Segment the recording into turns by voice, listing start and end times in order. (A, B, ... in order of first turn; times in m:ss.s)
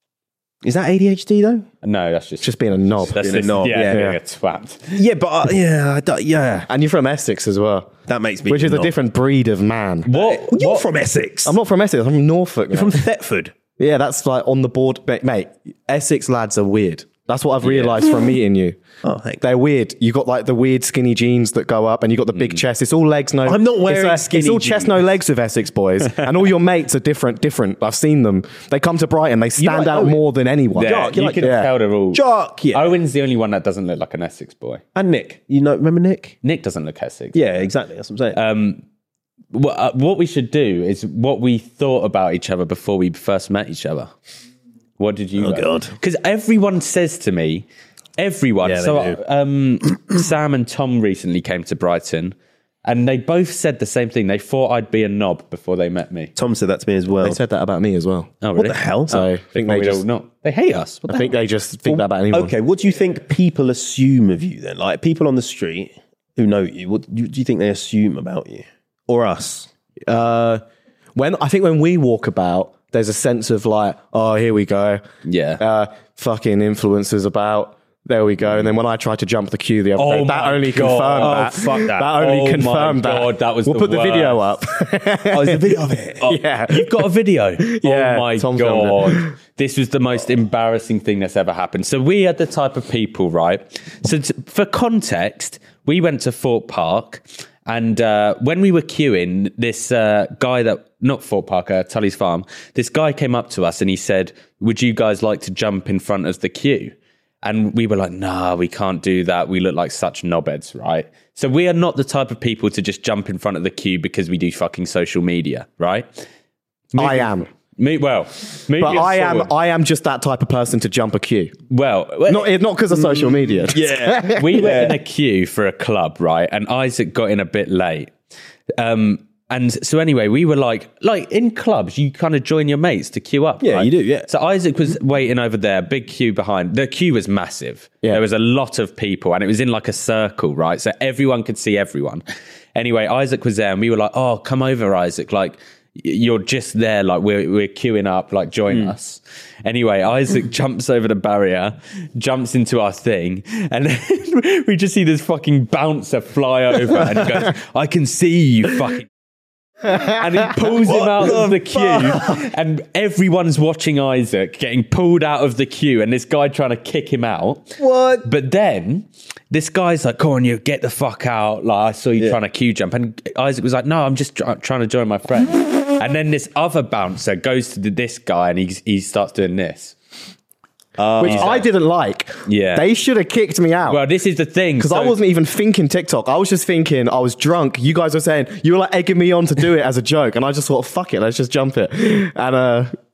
0:00.6-0:01.7 A
0:01.8-0:05.0 B
0:02.4-0:04.2 C
0:03.2-0:04.1 A
0:04.9-0:06.7 A
0:06.7-0:08.0 C
0:08.1-0:08.9 A
0:08.5-0:10.1 C
0:10.0-0:10.8 B
0:10.1-0:11.6 A
0:11.4-0:13.0 C
0:12.7-0:13.5 A
0:13.8-0:18.8 C
0:17.6-0:18.0 B
0:19.0-0:19.4 A
0:19.4-0:31.7 C
0:23.4-0:25.0 A
0:29.6-0:30.2 A
0:30.7-0:32.2 B
0:30.8-0:32.9 A
0:32.7-0:34.8 B
0:34.9-0:36.4 A
0:36.4-0:37.6 B
0:37.3-0:38.4 A
0:38.3-0:38.8 B
0:39.5-0:44.1 B
0:45.0-0:47.6 B
0:45.4-0:45.9 A
0:48.2-0:56.3 B
0:48.6-0:49.2 A
0:56.4-0:57.4 A
0:57.2-0:58.3 C
0:58.4-1:01.3 B
0:58.6-0:59.2 A
0:59.1-1:00.0 C
1:01.1-1:02.5 C
1:01.8-1:09.7 A
1:10.1-1:10.6 C
1:11.1-1:15.0 C
1:15.2-1:15.6 B
1:15.6-1:27.1 C
1:20.0-1:24.4 B
1:21.2-1:21.9 A
1:25.3-1:26.4 A
1:26.7-1:56.2 B
1:27.6-1:29.3 C
1:56.9-1:59.5 B
1:56.9-1:57.5 C
1:58.8-2:01.6 C
2:01.7-2:02.5 B
2:02.3-2:04.7 C
2:03.6-2:05.0 A
2:04.3-2:08.1 B
2:08.8-2:22.2 B
2:13.6-2:14.3 A
2:22.7-2:39.1 B
2:28.7-2:28.9 A
2:40.0-3:00.0 B
2:40.8-2:42.4 A
2:47.8-2:48.3 A
3:01.0-3:01.6 A
3:01.2-3:04.0 C
3:01.2-3:01.6 B
3:02.4-3:02.8 B
3:03.9-3:05.2 B
3:04.8-3:12.9 C